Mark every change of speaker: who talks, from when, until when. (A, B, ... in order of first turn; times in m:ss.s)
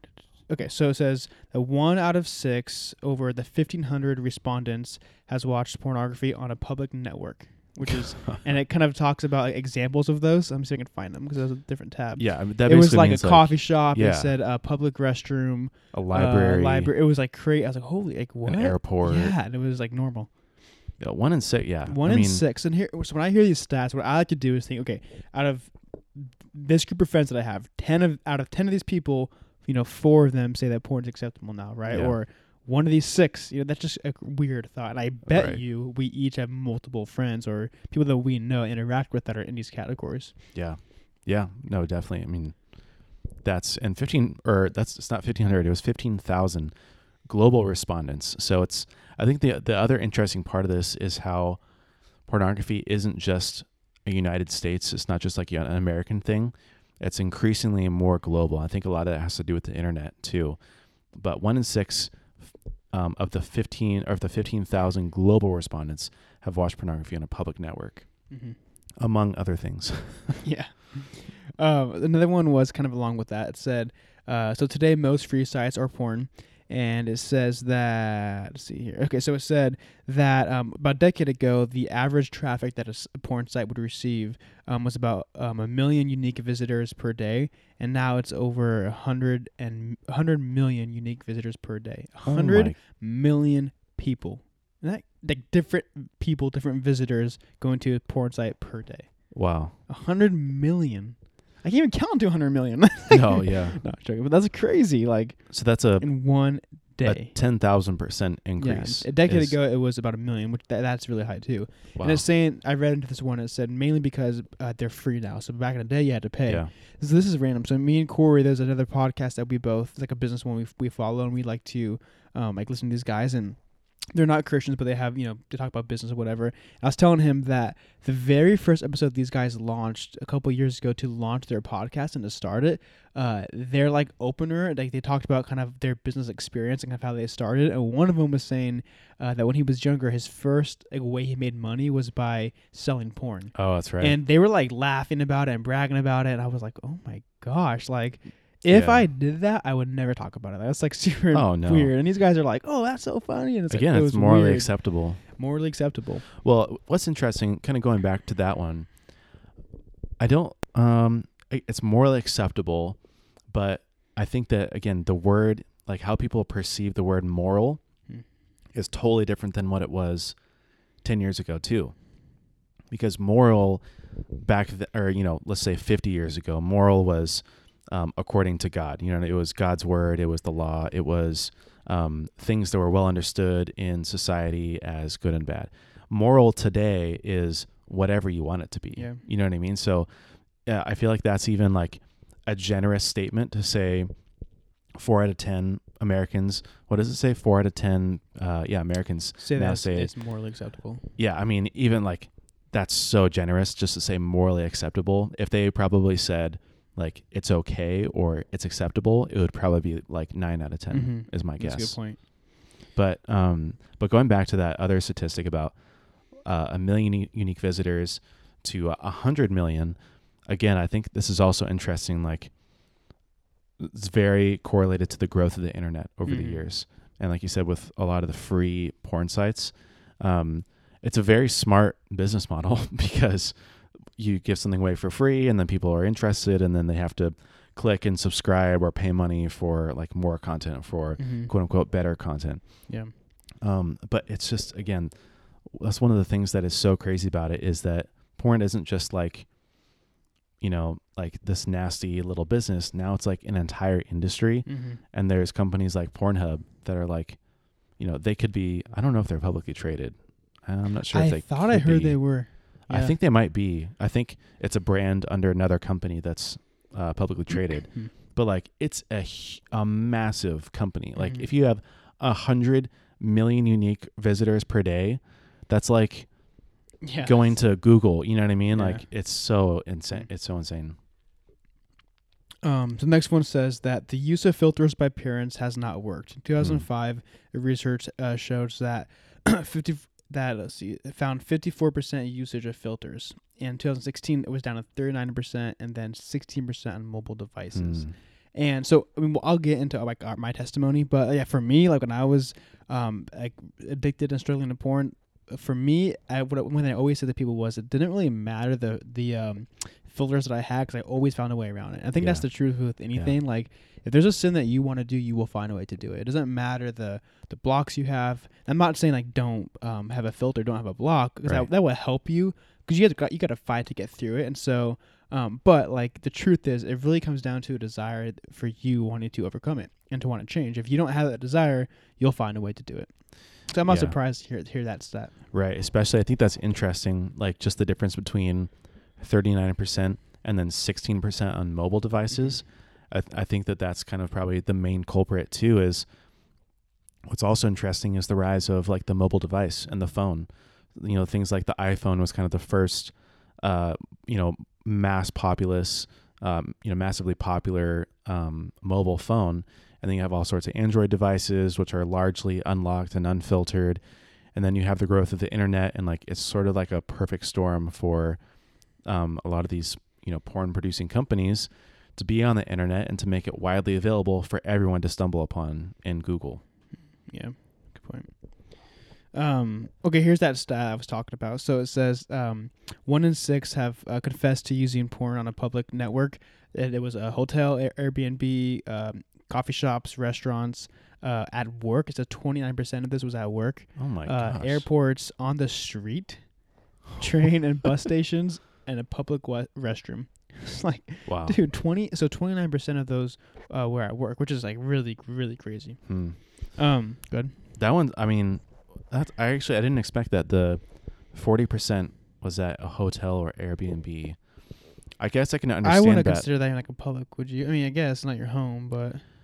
0:00.5-0:20.3 A
0:12.2-0:14.4 B
0:15.9-0:16.9 B
0:18.4-0:19.3 B
0:21.0-0:22.4 B
0:21.9-0:40.4 A
0:31.9-0:32.2 B
0:35.3-0:35.6 B
0:40.5-0:51.6 B
0:52.2-1:08.4 B
1:08.3-1:08.6 A
1:09.0-1:10.5 B
1:10.4-1:47.4 A
1:32.2-1:32.8 B
1:39.3-1:39.8 B
1:43.1-1:43.8 B
1:45.5-1:49.6 B
1:48.6-2:36.3 A
1:52.0-1:52.3 B
2:23.6-2:24.2 B
2:28.7-2:29.1 B
2:31.3-2:31.9 B
2:33.7-2:35.2 B
2:36.4-2:39.1 B
2:40.2-2:47.8 B
2:48.7-2:50.4 B
2:51.0-3:10.1 B
3:09.0-3:09.2 A
3:10.6-3:14.2 B
3:14.9-3:20.2 B
3:19.4-3:21.1 A
3:21.2-3:32.4 B
3:30.9-3:32.2 A
3:32.9-3:42.6 B
3:43.8-4:09.9 B
3:46.3-3:46.7 A
4:01.2-4:01.5 A
4:02.9-4:03.1 A
4:10.6-4:41.0 B
4:14.7-4:15.0 A
4:21.1-4:23.2 A
4:31.2-4:31.5 A
4:37.0-4:37.6 A
4:38.7-4:39.1 A
4:42.6-5:35.4 A
4:46.6-4:46.9 B
4:57.7-4:58.2 B
5:12.2-5:13.4 B
5:33.8-5:34.2 B
5:35.5-5:46.1 B
5:42.3-5:42.6 A
5:47.3-6:04.0 B
6:04.5-6:16.6 B
6:17.1-6:47.6 A
6:34.0-6:34.9 B
6:41.3-6:41.6 B
6:46.1-6:46.8 B
6:47.7-6:56.5 B
6:55.8-6:59.2 A